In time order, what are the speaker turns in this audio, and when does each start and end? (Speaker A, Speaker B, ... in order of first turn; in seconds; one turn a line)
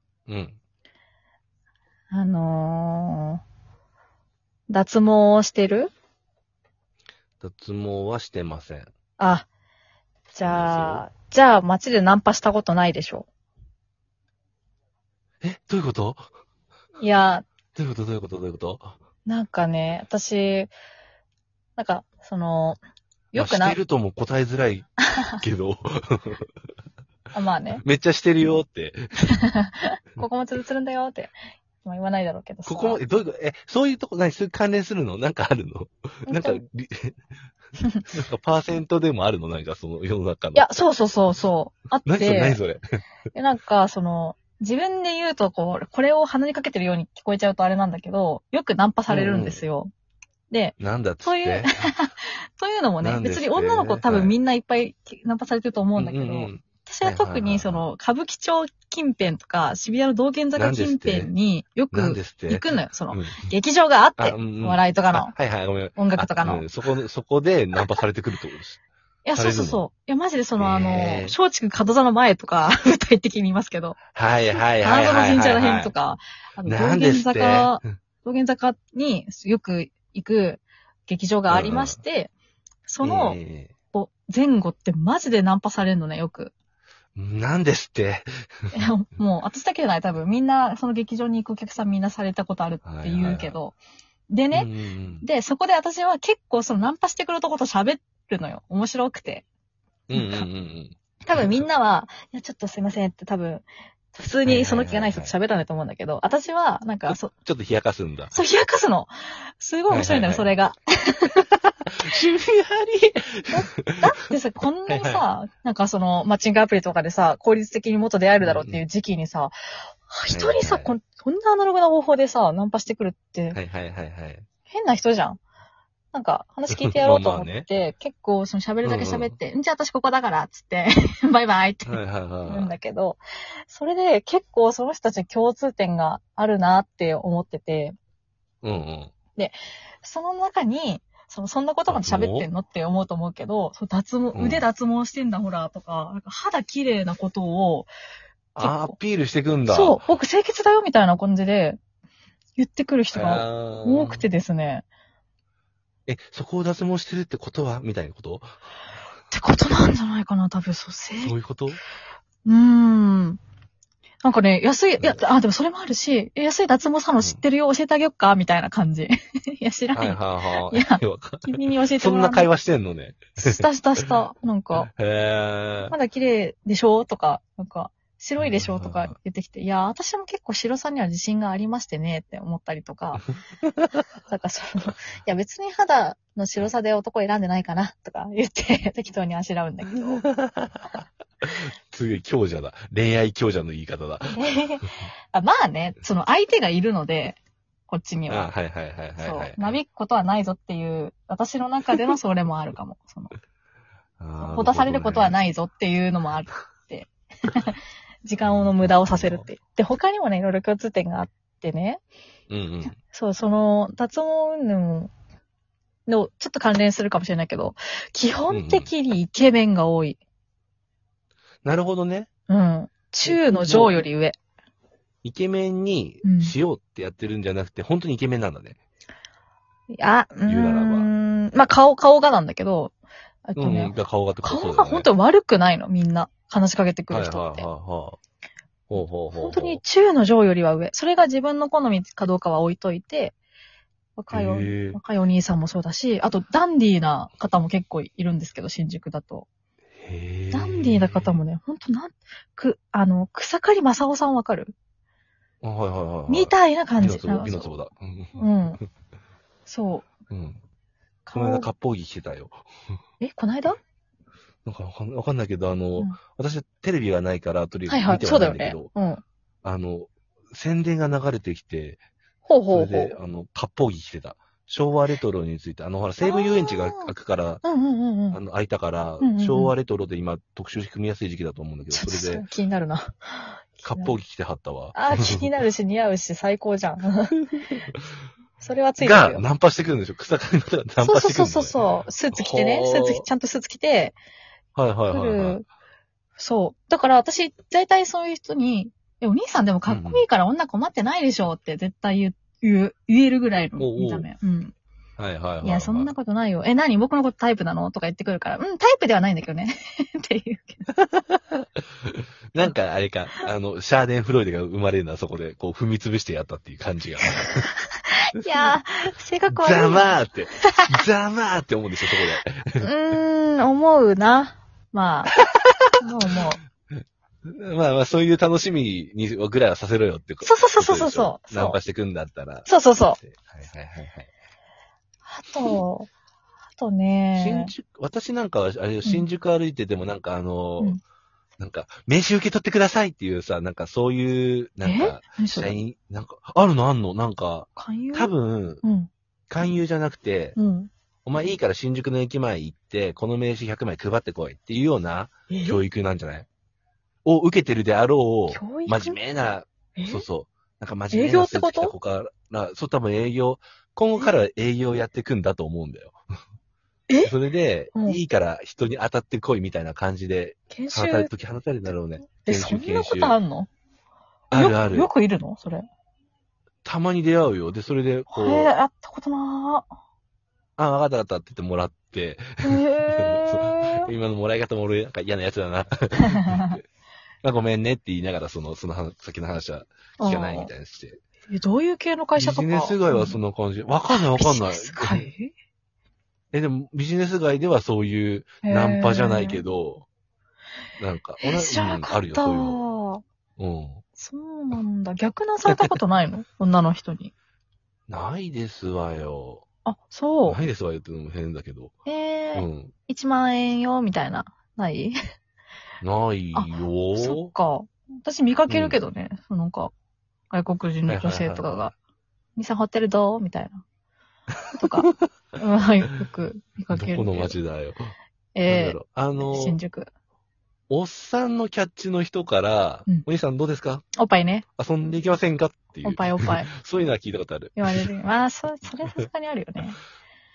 Speaker A: 0.3-0.6
Speaker B: 2.1-3.4
Speaker B: 4.7-5.9
Speaker A: 7.4-8.9
Speaker B: 9.2-9.5
Speaker B: 10.3-13.3
Speaker A: 10.5-11.1
Speaker A: 15.4-16.2
Speaker B: 17.0-17.5
Speaker A: 17.8-19.0
Speaker B: 19.3-20.7
Speaker B: 21.8-22.8
Speaker B: 23.3-23.8
Speaker A: 23.4-26.5
Speaker B: 27.3-27.8
Speaker A: 27.8-29.0
Speaker B: 29.4-33.0
Speaker A: 32.7-37.2
Speaker B: 36.3-36.6
Speaker B: 37.8-38.0
Speaker A: 38.1-40.7
Speaker B: 40.5-42.6
Speaker A: 42.1-42.8
Speaker B: 43.3-49.9
Speaker A: 49.1-49.6
Speaker B: 50.5-65.3
Speaker A: 50.8-51.9
Speaker A: 53.0-54.4
Speaker A: 56.0-57.9
Speaker A: 60.6-61.3
Speaker A: 61.9-63.5
Speaker A: 64.2-68.8
Speaker B: 66.0-66.7
Speaker B: 69.2-74.0
Speaker A: 69.3-69.8
Speaker A: 70.6-71.4
Speaker A: 74.2-75.9
Speaker B: 74.5-82.3
Speaker A: 76.7-77.9
Speaker A: 81.5-82.0
Speaker B: 82.9-83.4
Speaker A: 83.0-83.7
Speaker B: 83.9-86.5
Speaker A: 87.2-88.8
Speaker B: 88.7-93.8
Speaker A: 92.8-93.5
Speaker B: 94.3-94.7
Speaker A: 94.5-95.3
Speaker B: 95.2-99.5
Speaker A: 100.1-101.6
Speaker B: 100.1-100.5
Speaker B: 101.3-107.3
Speaker A: 104.5-105.3
Speaker A: 107.1-108.3
Speaker B: 108.3-111.4
Speaker A: 109.9-110.5
Speaker A: 112.0-114.0
Speaker B: 113.5-119.5
Speaker A: 114.9-115.2
Speaker A: 118.4-118.8
Speaker B: 120.1-123.6
Speaker A: 120.3-120.9
Speaker A: 123.5-124.5
Speaker B: 124.7-125.4
Speaker B: 126.1-138.0
Speaker A: 126.8-127.7
Speaker A: 128.8-129.4
Speaker A: 131.9-132.8
Speaker A: 138.6-139.1
Speaker B: 139.4-147.9
Speaker A: 141.9-142.5
Speaker A: 144.3-144.6
Speaker B: 148.6-149.0
Speaker A: 148.6-150.1
Speaker B: 149.7-151.8
Speaker B: 152.6-154.8
Speaker A: 153.1-154.3
Speaker A: 156.1-158.5
Speaker B: 159.3-161.3
Speaker A: 161.2-161.8
Speaker B: 162.4-163.4
Speaker B: 164.2-172.5
Speaker A: 169.9-173.7
Speaker B: 173.4-174.9
Speaker A: 174.8-175.9
Speaker B: 175.9-183.2
Speaker A: 178.4-179.2
Speaker A: 183.8-184.0
Speaker B: 184.3-190.2
Speaker A: 190.1-194.5
Speaker B: 194.3-198.5
Speaker A: 198.3-199.7
Speaker B: 199.2-203.3
Speaker A: 204.2-205.3
Speaker B: 204.4-212.0
Speaker A: 208.4-209.5
Speaker A: 212.5-212.9
Speaker B: 212.9-215.1
Speaker B: 216.1-220.2
Speaker A: 218.5-218.9
Speaker A: 221.6-222.3
Speaker B: 222.5-224.4
Speaker A: 223.3-224.0
Speaker A: 225.2-228.8
Speaker B: 226.2-226.6
Speaker B: 229.9-232.9
Speaker A: 230.5-231.1
Speaker B: 233.5-237.7
Speaker A: 233.6-235.1
Speaker A: 237.1-238.2
Speaker A: 238.9-239.8
Speaker B: 239.3-243.3
Speaker B: 244.2-249.5
Speaker A: 244.3-245.0
Speaker A: 250.0-251.4
Speaker B: 250.5-254.7
Speaker A: 255.6-258.8
Speaker B: 256.3-257.7
Speaker B: 258.4-258.8
Speaker B: 259.7-260.1
Speaker A: 260.3-260.6
Speaker B: 261.3-261.7
Speaker A: 261.3-262.6
Speaker B: 263.2-263.8
Speaker A: 264.6-268.9
Speaker B: 267.9-269.2
Speaker A: 269.6-272.0
Speaker B: 272.5-273.2
Speaker A: 272.7-277.6
Speaker B: 276.2-277.1
Speaker B: 277.6-278.4
Speaker A: 278.3-282.4
Speaker B: 279.2-279.7
Speaker B: 281.9-284.2
Speaker A: 283.8-285.5
Speaker B: 284.9-287.4
Speaker B: 288.6-289.4
Speaker A: 289.0-291.8
Speaker B: 291.0-294.1
Speaker A: 292.3-293.2
Speaker A: 294.8-295.6
Speaker B: 295.1-295.7
Speaker B: 296.4-304.7
Speaker A: 299.9-300.2
Speaker A: 303.8-304.3
Speaker A: 305.2-306.1
Speaker B: 305.6-310.9
Speaker A: 311.0-317.7
Speaker B: 318.2-320.9
Speaker A: 319.5-322.9
Speaker B: 322.8-325.3
Speaker A: 325.3-325.9
Speaker B: 326.0-326.6
Speaker A: 327.4-332.7
Speaker B: 330.4-331.8
Speaker B: 332.7-333.2
Speaker A: 333.2-334.3
Speaker B: 335.3-336.1
Speaker B: 336.8-337.7
Speaker A: 337.4-341.0
Speaker A: 341.6-348.8
Speaker B: 344.8-345.8
Speaker B: 347.8-349.1
Speaker A: 349.5-350.6
Speaker B: 350.6-350.9
Speaker A: 351.2-356.5
Speaker B: 355.5-355.8
Speaker A: 357.2-366.2
Speaker B: 358.5-359.2
Speaker B: 360.0-360.3
Speaker B: 361.1-361.9
Speaker A: 367.2-373.4
Speaker B: 370.7-371.3
Speaker B: 372.4-373.7
Speaker A: 374.5-375.1
Speaker B: 374.5-375.9
Speaker A: 376.8-378.7
Speaker B: 378.3-379.9
Speaker A: 380.8-386.8
Speaker B: 382.6-384.1
Speaker A: 387.4-391.2
Speaker B: 390.2-390.7
Speaker B: 391.5-393.4
Speaker A: 392.4-395.3
Speaker B: 394.1-395.5
Speaker A: 396.5-400.1
Speaker B: 398.6-399.6
Speaker A: 401.0-402.8
Speaker B: 401.4-403.2
Speaker A: 403.6-404.0
Speaker B: 404.2-407.3
Speaker A: 408.1-409.6
Speaker B: 409.9-410.6
Speaker A: 410.5-411.9
Speaker B: 412.1-415.2
Speaker A: 412.5-412.9
Speaker A: 416.0-417.5
Speaker B: 416.6-419.9
Speaker A: 418.7-419.0
Speaker B: 420.5-421.9
Speaker A: 421.1-421.9
Speaker B: 422.6-423.8
Speaker B: 424.8-427.6
Speaker A: 426.9-428.1
Speaker B: 428.6-430.1
Speaker A: 428.7-429.8
Speaker A: 430.9-434.1
Speaker B: 434.2-434.6
Speaker A: 434.8-438.1
Speaker B: 436.0-436.7
Speaker B: 437.8-440.0